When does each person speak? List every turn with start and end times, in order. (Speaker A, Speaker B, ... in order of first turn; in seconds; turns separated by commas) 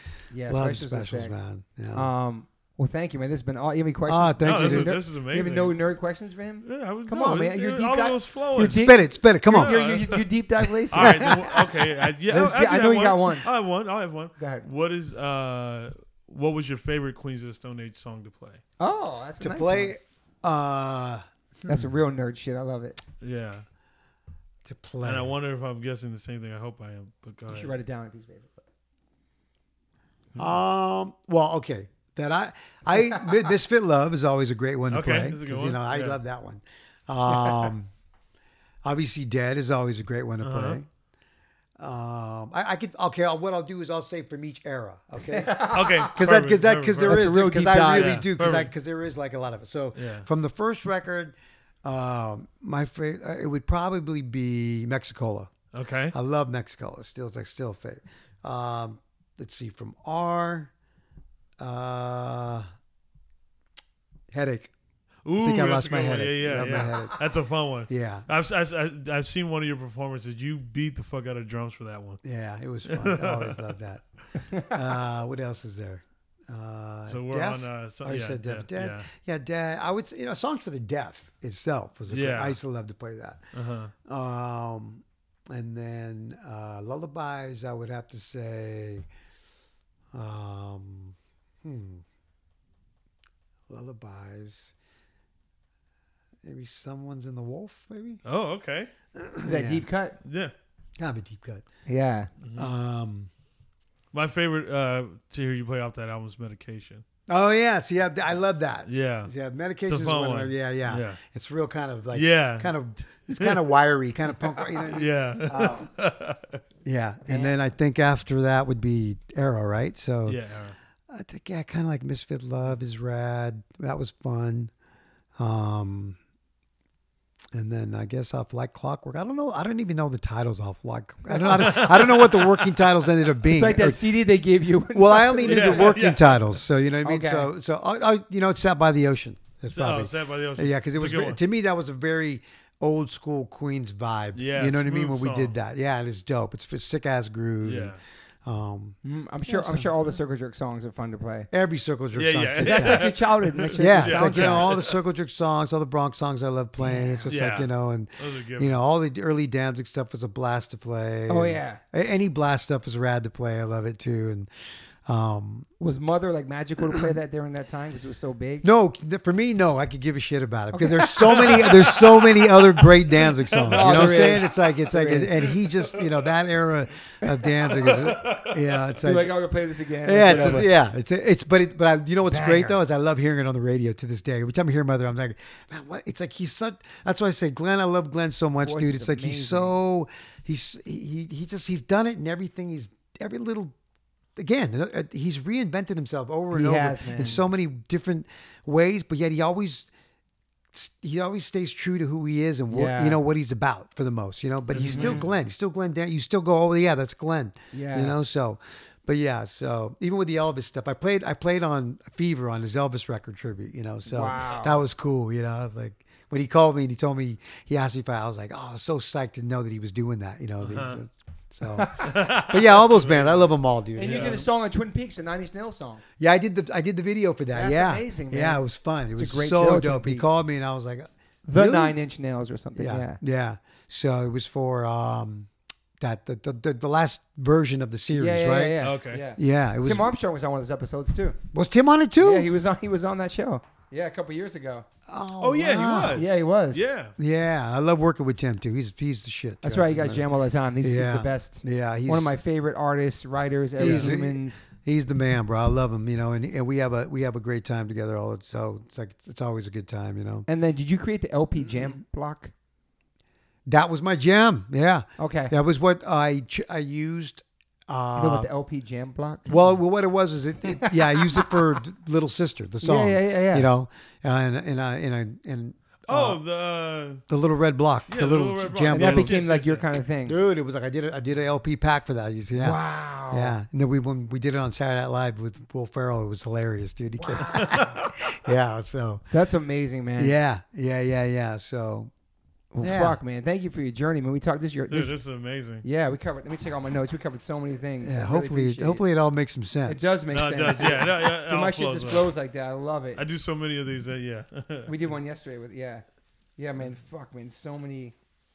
Speaker A: 0.3-1.4, Speaker B: 0.5-2.1, Speaker A: 1.9-11.3, Speaker B: 4.1-5.0, Speaker C: 4.4-5.8, Speaker C: 6.6-8.8, Speaker B: 8.5-9.8, Speaker C: 9.5-18.6, Speaker B: 10.9-11.9, Speaker A: 12.3-13.5, Speaker A: 14.4-14.7, Speaker A: 18.8-19.9, Speaker B: 19.4-21.9, Speaker A: 21.7-23.0, Speaker C: 23.2-23.6, Speaker B: 24.6-25.4, Speaker C: 25.0-27.7, Speaker A: 27.5-28.6, Speaker B: 30.3-37.9, Speaker C: 34.9-36.2, Speaker B: 38.8-40.9, Speaker C: 40.4-40.8, Speaker B: 41.8-55.5, Speaker A: 45.3-46.1, Speaker C: 45.6-47.3, Speaker A: 47.0-48.2, Speaker C: 47.9-48.7, Speaker C: 49.9-50.3, Speaker C: 55.7-56.1, Speaker B: 56.1-60.7, Speaker B: 61.6-62.7, Speaker B: 64.3-64.7, Speaker C: 65.2-72.2, Speaker B: 65.3-67.2, Speaker B: 67.9-68.3, Speaker B: 72.2-89.1, Speaker C: 72.9-73.8, Speaker A: 74.3-74.7, Speaker C: 77.1-79.1, Speaker C: 82.1-82.6, Speaker C: 83.5-83.9, Speaker B: 90.1-92.0, Speaker B: 93.7-94.7, Speaker B: 96.4-98.2, Speaker C: 98.2-98.9, Speaker B: 99.1-99.9, Speaker A: 99.4-100.2, Speaker C: 100.2-100.5, Speaker B: 101.0-101.7, Speaker A: 101.8-102.3, Speaker C: 102.4-102.7, Speaker B: 102.5-103.3, Speaker C: 104.1-107.0, Speaker B: 107.3-115.9, Speaker C: 108.8-109.3, Speaker C: 109.9-111.2, Speaker C: 112.1-113.7, Speaker C: 114.8-116.6, Speaker B: 116.8-120.4, Speaker A: 117.2-117.5, Speaker C: 120.2-120.8, Speaker B: 121.1-124.7, Speaker B: 125.4-126.2, Speaker B: 127.5-134.0, Speaker C: 131.4-132.9, Speaker A: 133.4-135.9, Speaker B: 134.9-149.9, Speaker C: 135.4-136.6, Speaker A: 137.0-137.5, Speaker C: 139.7-141.4, Speaker C: 144.3-145.5, Speaker C: 147.6-148.0, Speaker A: 149.0-151.5, Speaker B: 151.5-153.1, Speaker C: 152.2-154.9, Speaker A: 152.6-154.7, Speaker B: 153.8-164.5, Speaker A: 156.8-157.3, Speaker C: 157.3-158.8, Speaker A: 161.3-161.8, Speaker B: 165.1-165.7, Speaker A: 165.8-168.7, Speaker B: 168.6-179.3, Speaker A: 170.7-171.7, Speaker C: 171.2-174.4, Speaker A: 173.6-175.4, Speaker C: 175.5-176.2, Speaker C: 177.6-179.0, Speaker A: 179.0-180.7, Speaker B: 180.0-193.7, Speaker C: 180.2-180.7, Speaker A: 182.2-182.8, Speaker A: 188.6-189.7, Speaker B: 194.3-199.9, Speaker A: 196.5-197.4, Speaker B: 200.7-224.4, Speaker A: 202.7-203.2, Speaker C: 204.7-205.3, Speaker A: 204.8-205.2, Speaker A: 207.7-208.2, Speaker A: 214.1-214.8, Speaker C: 220.6-221.0, Speaker A: 221.6-222.2, Speaker C: 222.0-224.4, Speaker A: 223.9-226.0, Speaker B: 226.2-232.0, Speaker A: 227.5-228.6, Speaker A: 229.1-230.3, Speaker A: 231.5-233.2, Speaker B: 232.8-240.1, Speaker A: 238.1-241.4, Speaker C: 238.8-239.2, Speaker B: 241.5-242.5, Speaker A: 242.2-244.8, Speaker B: 245.1-246.3, Speaker C: 245.4-247.1, Speaker A: 246.1-246.8, Speaker B: 247.2-252.3, Speaker A: 249.6-254.7, Speaker C: 253.8-254.1, Speaker B: 253.8-260.4, Speaker A: 260.5-262.5, Speaker B: 263.7-268.5, Speaker A: 265.2-265.5, Speaker A: 268.1-269.5, Speaker B: 269.5-276.4, Speaker A: 270.6-271.6, Speaker A: 272.8-273.7, Speaker C: 276.1-277.2, Speaker B: 277.3-279.3, Speaker C: 278.1-280.0, Speaker A: 278.9-280.4, Speaker B: 280.2-289.2, Speaker A: 282.6-283.6, Speaker A: 287.2-287.9, Speaker A: 289.3-290.3, Speaker B: 290.2-292.1, Speaker A: 292.7-295.1, Speaker B: 292.8-293.2, Speaker C: 294.9-295.8, Speaker A: 295.8-299.0, Speaker B: 298.0-300.1, Speaker A: 299.9-303.2, Speaker C: 300.3-302.3, Speaker B: 300.7-301.1, Speaker C: 303.1-304.9, Speaker A: 304.9-306.0, Speaker A: 306.6-308.1